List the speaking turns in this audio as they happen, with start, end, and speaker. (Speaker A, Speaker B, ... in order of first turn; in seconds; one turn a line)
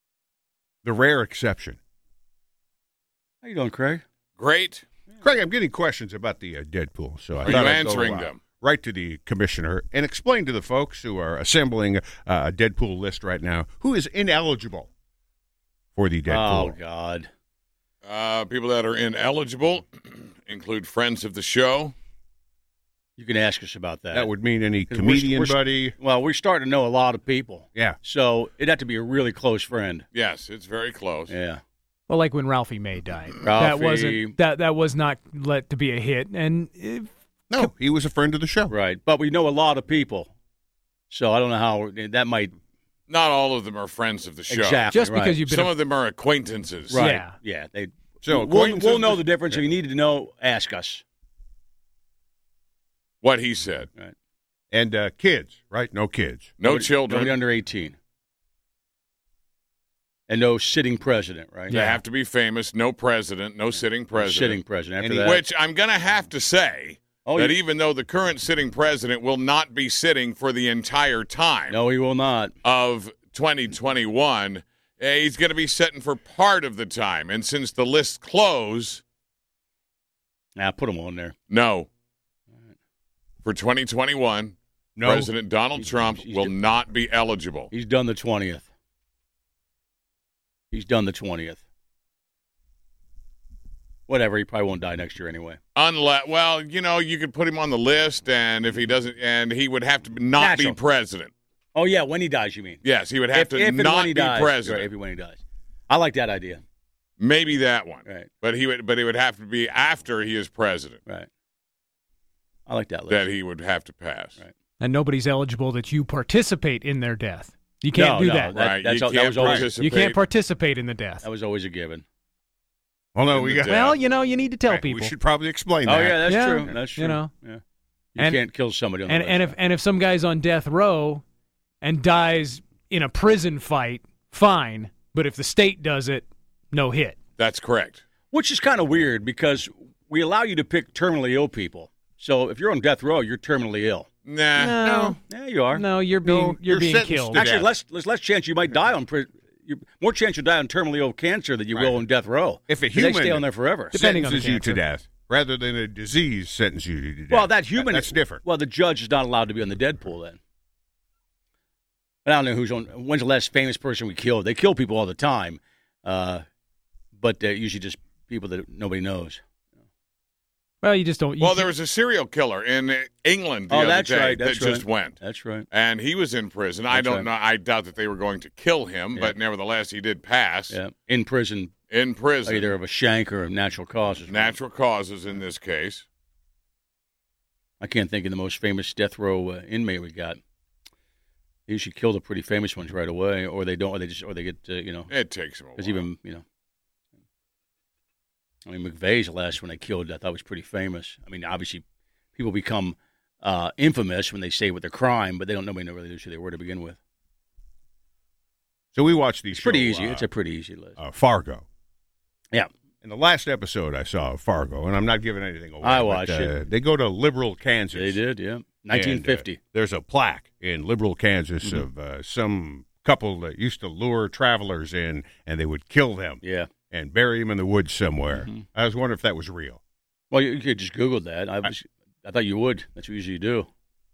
Speaker A: 0.8-1.8
Speaker B: 3.4-4.0
Speaker C: 4.4-4.8
Speaker A: 5.2-14.9
Speaker C: 7.4-8.4
Speaker A: 15.9-16.8
Speaker B: 16.3-17.3
Speaker C: 18.0-21.9
Speaker B: 23.2-24.3
Speaker A: 24.1-25.9
Speaker B: 24.9-30.1
Speaker C: 30.1-31.3
Speaker B: 31.3-31.6
Speaker D: 32.1-37.7
Speaker B: 33.4-34.4
Speaker A: 37.5-38.7
Speaker B: 38.7-40.3
Speaker B: 41.1-42.5
Speaker C: 43.1-44.8
Speaker B: 44.5-45.4
Speaker D: 44.9-45.7
Speaker C: 45.5-47.1
Speaker B: 46.9-51.0
Speaker D: 47.0-47.3
Speaker A: 48.2-49.2
Speaker C: 53.2-53.9
Speaker A: 54.7-56.5
Speaker C: 56.6-57.4
Speaker B: 56.6-58.0
Speaker B: 60.3-62.0
Speaker C: 61.7-71.8
Speaker B: 64.1-65.4
Speaker B: 67.2-67.6
Speaker B: 71.7-72.5
Speaker C: 72.6-79.0
Speaker B: 80.5-81.3
Speaker C: 81.5-81.9
Speaker C: 83.4-87.7
Speaker A: 85.0-85.3
Speaker B: 85.8-86.5
Speaker B: 87.7-88.7
Speaker B: 90.7-91.6
Speaker B: 94.1-95.6
Speaker C: 95.8-101.3
Speaker B: 100.4-100.8
Speaker B: 101.7-102.8
Speaker C: 102.8-104.9
Speaker B: 103.3-106.6
Speaker C: 107.2-111.0
Speaker B: 112.7-113.3
Speaker C: 113.1-114.4
Speaker D: 114.8-118.5
Speaker B: 117.9-119.7
Speaker C: 118.5-120.2
Speaker D: 119.7-121.2
Speaker B: 121.2-122.0
Speaker A: 123.1-123.8
Speaker C: 123.3-124.0
Speaker D: 123.6-125.1
Speaker A: 124.7-126.7
Speaker B: 125.8-127.6
Speaker D: 126.2-127.3
Speaker B: 128.1-129.5
Speaker D: 129.1-131.2
Speaker D: 131.8-137.2
Speaker C: 137.4-138.0
Speaker B: 138.3-144.1
Speaker C: 144.2-145.1
Speaker D: 144.6-145.2
Speaker A: 144.8-145.2
Speaker B: 145.3-145.8
Speaker D: 145.7-147.5
Speaker A: 146.2-147.7
Speaker B: 147.3-153.9
Speaker A: 152.7-158.4
Speaker D: 153.9-154.8
Speaker B: 157.3-160.4
Speaker B: 162.2-166.4
Speaker B: 167.2-169.4
Speaker D: 170.8-171.7
Speaker C: 171.4-180.8
Speaker B: 173.7-175.7
Speaker B: 176.9-177.3
Speaker B: 180.7-181.7
Speaker C: 181.9-182.7
Speaker B: 182.4-184.5
Speaker C: 184.3-186.1
Speaker B: 187.8-190.4
Speaker B: 191.7-195.1
Speaker C: 195.1-196.1
Speaker B: 195.8-196.4
Speaker B: 198.6-201.8
Speaker B: 202.3-207.0
Speaker A: 208.9-210.3
Speaker B: 209.5-211.0
Speaker A: 211.0-211.7
Speaker A: 213.0-218.2
Speaker B: 215.8-216.5
Speaker B: 217.9-219.6
Speaker A: 218.9-229.8
Speaker B: 226.4-226.7
Speaker B: 228.3-228.6
Speaker B: 230.3-233.7